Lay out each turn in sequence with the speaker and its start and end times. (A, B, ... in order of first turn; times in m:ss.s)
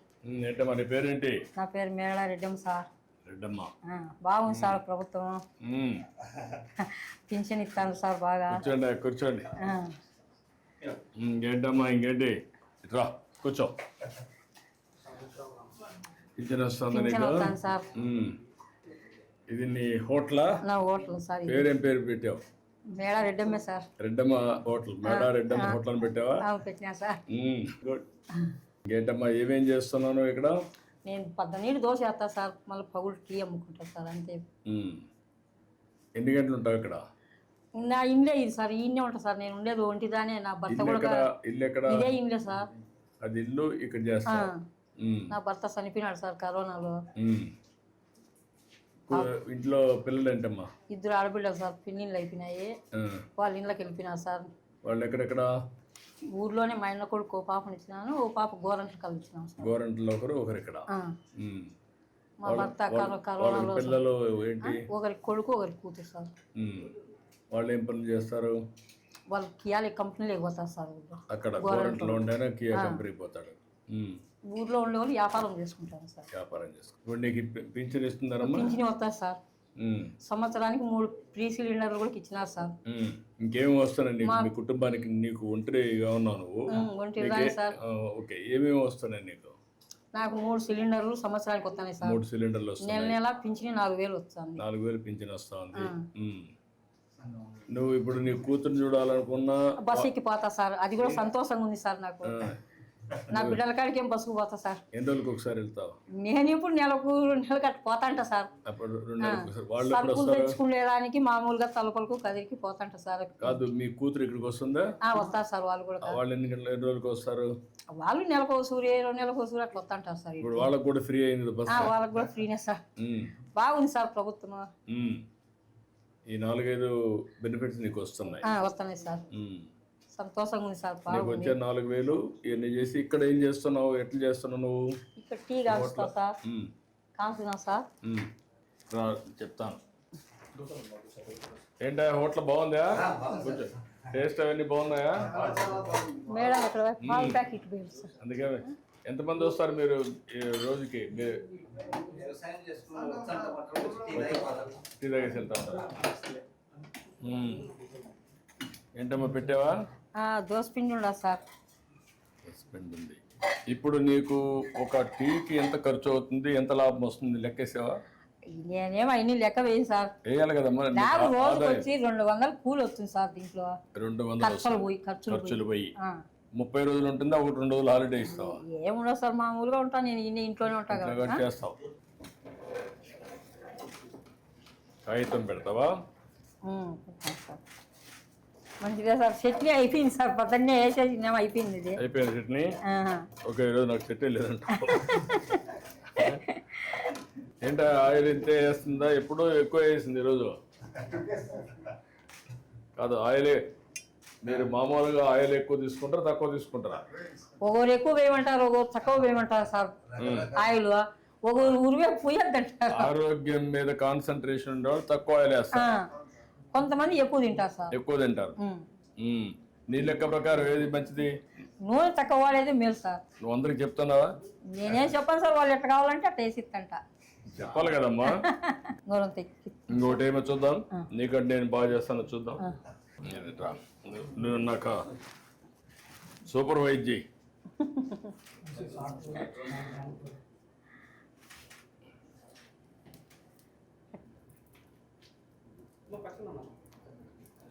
0:00.2-0:01.4 A
0:01.6-0:02.9 B
0:03.2-0:03.7 A
0:03.8-0:05.4 B
0:04.5-0:04.8 A
0:05.6-0:06.1 A
0:06.8-0:08.6 B
0:08.5-0:09.5 A
0:09.6-0:10.0 B
0:11.2-0:13.8 A
0:16.4-0:18.4 A
0:16.9-0:17.9 B
0:19.5-0:20.6 A
0:20.6-0:21.7 B
0:21.5-0:22.4 A
0:22.9-0:23.9 B
0:24.0-0:26.4 A
0:25.0-0:25.8 B
0:26.4-0:27.2 B
0:27.3-0:28.0 A
0:28.9-0:30.5 A
0:31.0-0:34.4 B
0:34.7-0:35.0 A
0:36.2-0:37.0 A
0:37.8-0:41.3 B
0:40.7-0:42.1 A
0:41.9-0:42.7 B
0:43.2-0:45.3 A
0:44.3-0:44.6 B
0:45.3-0:47.0 B
0:47.2-0:47.5 A
0:49.1-0:50.7 A
0:50.9-0:52.8 B
0:52.9-0:53.2 A
0:53.4-0:54.5 B
0:54.8-0:55.5 A
0:56.3-0:59.7 B
0:59.6-1:00.9 A
1:00.9-1:01.2 B
1:01.4-1:01.7 A
1:02.4-1:04.0 B
1:02.4-1:04.8 A
1:04.6-1:06.3 B
1:06.6-1:06.9 A
1:07.5-1:08.6 A
1:09.3-1:13.0 B
1:11.3-1:14.2 A
1:14.5-1:16.3 B
1:16.3-1:18.8 A
1:18.4-1:19.4 B
1:19.8-1:20.1 A
1:20.2-1:22.7 B
1:22.9-1:29.6 A
1:24.2-1:24.5 B
1:26.7-1:27.8 B
1:30.1-1:32.2 B
1:32.0-1:33.2 A
1:32.8-1:34.6 B
1:34.6-1:36.5 A
1:35.8-1:36.1 B
1:37.7-1:40.1 A
1:39.8-1:42.5 B
1:42.2-1:42.6 A
1:43.3-1:44.8 B
1:43.3-1:43.6 A
1:44.9-1:46.0 A
1:46.2-1:48.5 B
1:48.6-1:50.6 A
1:49.2-1:53.6 B
1:53.4-1:55.0 A
1:55.0-1:56.2 B
1:56.0-1:57.5 A
1:57.9-2:00.7 B
2:00.4-2:02.0 A
2:01.7-2:02.8 B
2:03.0-2:03.3 A
2:03.4-2:04.7 B
2:04.9-2:05.2 A
2:06.3-2:08.5 A
2:08.4-2:09.2 B
2:09.3-2:09.7 A
2:10.1-2:11.6 B
2:11.1-2:14.9 A
2:15.2-2:16.3 B
2:15.7-2:16.7 A
2:17.2-2:17.9 B
2:18.0-2:18.3 A
2:18.9-2:19.8 A
2:21.8-2:25.5 A
2:25.4-2:26.2 C
2:26.3-2:28.2 B
2:27.0-2:27.4 A
2:28.2-2:31.5 A
2:31.9-2:34.8 C
2:34.1-2:36.0 A
2:37.2-2:37.7 A
2:39.0-2:39.8 A
2:40.2-2:41.4 B
2:42.5-2:48.0 A
2:48.5-2:50.1 B
2:50.2-2:51.9 A
2:50.9-2:53.8 B
2:54.0-2:55.9 A
2:54.4-2:56.2 B
2:56.6-2:58.6 A
2:58.3-3:01.4 B
3:00.9-3:01.8 A
3:05.0-3:05.9 A
3:06.6-3:07.6 B
3:08.8-3:12.0 B
3:12.0-3:12.8 A
3:12.8-3:13.3 B
3:13.4-3:15.3 A
3:14.7-3:17.0 B
3:16.2-3:16.4 A
3:17.6-3:20.5 A
3:23.0-3:23.6 A
3:24.4-3:27.1 A
3:27.6-3:33.1 B
3:30.2-3:30.6 A
3:32.9-3:35.9 A
3:35.7-3:36.1 B
3:36.7-3:38.0 B
3:37.9-3:38.6 A
3:38.6-3:38.9 B
3:39.2-3:41.4 A
3:41.8-3:43.2 B
3:43.4-3:44.3 A
3:44.7-3:47.0 B
3:47.5-3:48.4 A
3:48.3-3:50.2 B
3:49.9-3:52.6 A
3:53.2-3:55.1 A
3:56.4-3:57.2 A
3:57.8-3:58.3 B
3:58.7-4:00.2 C
4:06.1-4:06.6 C